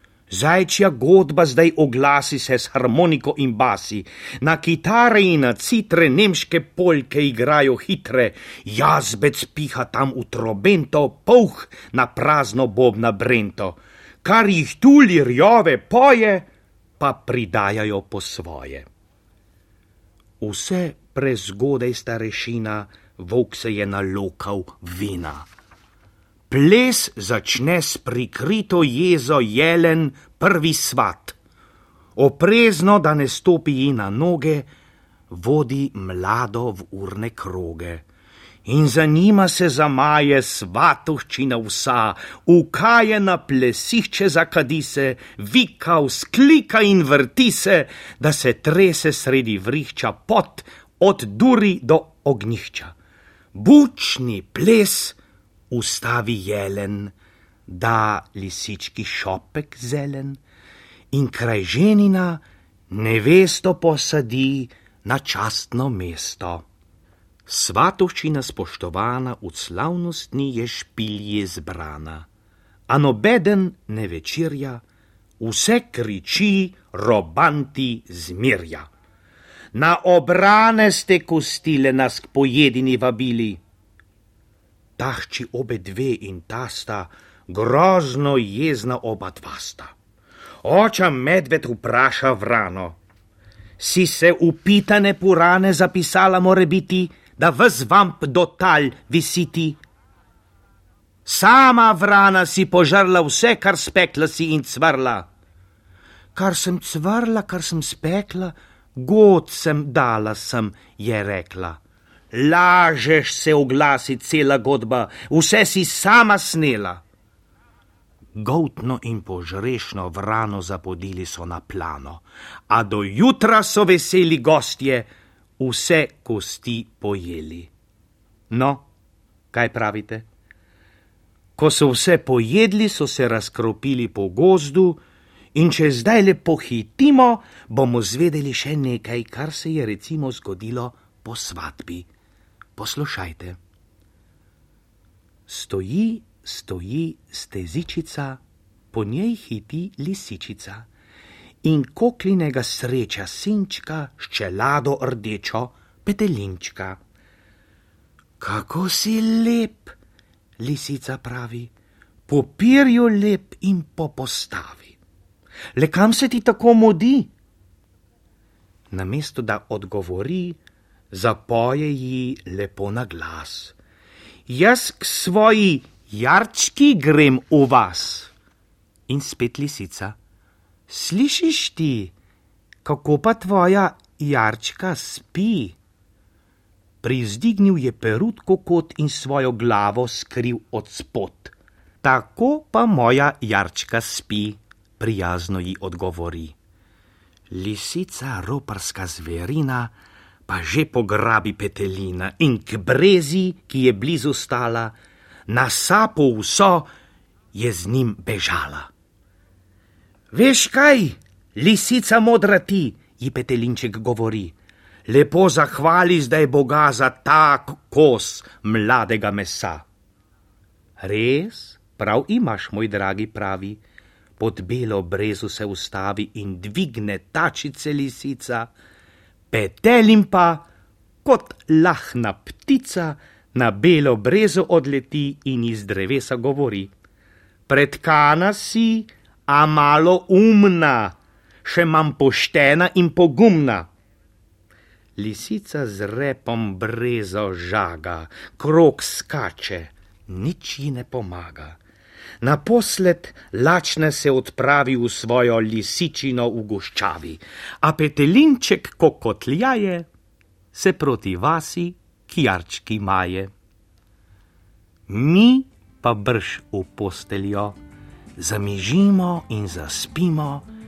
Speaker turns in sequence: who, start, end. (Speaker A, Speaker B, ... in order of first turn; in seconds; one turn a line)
Speaker A: 0.3-16.5
Speaker A: 17.0-18.9
Speaker A: 20.4-25.5
Speaker A: 26.5-31.4
Speaker A: 32.2-34.7
Speaker A: 35.3-38.1
Speaker A: 38.6-53.0
Speaker A: 53.5-55.2
Speaker A: 55.7-57.1
Speaker A: 57.7-60.4
Speaker A: 61.1-66.7
Speaker A: 67.5-72.3
Speaker A: 72.9-74.8
Speaker A: 75.4-78.9
Speaker A: 79.7-83.6
Speaker A: 85.0-89.9
Speaker A: 90.6-93.0
Speaker A: 93.8-99.8
Speaker A: 101.2-105.3
Speaker A: 106.3-111.8
Speaker A: 112.3-117.0
Speaker A: 118.4-127.7
Speaker A: 128.5-128.9
Speaker A: 129.5-130.3
Speaker A: 131.6-135.0
Speaker A: 135.5-142.1
Speaker A: 142.8-143.6
Speaker A: 145.5-148.4
Speaker A: 148.9-150.9
Speaker A: 151.6-157.0
Speaker A: 158.4-160.0
Speaker A: 160.6-161.7
Speaker A: 162.3-165.0
Speaker A: 165.8-167.3
Speaker A: 168.9-170.6
Speaker A: 171.1-173.8
Speaker A: 174.5-178.3
Speaker A: 179.1-180.2
Speaker A: 180.9-182.1
Speaker A: 182.8-185.8
Speaker A: 187.0-196.6
Speaker A: 197.5-199.9
Speaker A: 200.5-205.0
Speaker A: 205.5-206.9
Speaker A: 207.5-208.9
Speaker A: 210.3-214.6
Speaker A: 215.1-219.9
Speaker A: 221.0-223.8
Speaker A: 224.4-228.7
Speaker A: 229.5-230.7
Speaker A: 231.2-236.9
Speaker A: 237.7-243.9
Speaker A: 245.2-251.8
Speaker A: 252.4-260.1
Speaker A: 260.7-263.5
Speaker A: 265.1-267.8
Speaker A: 268.4-270.7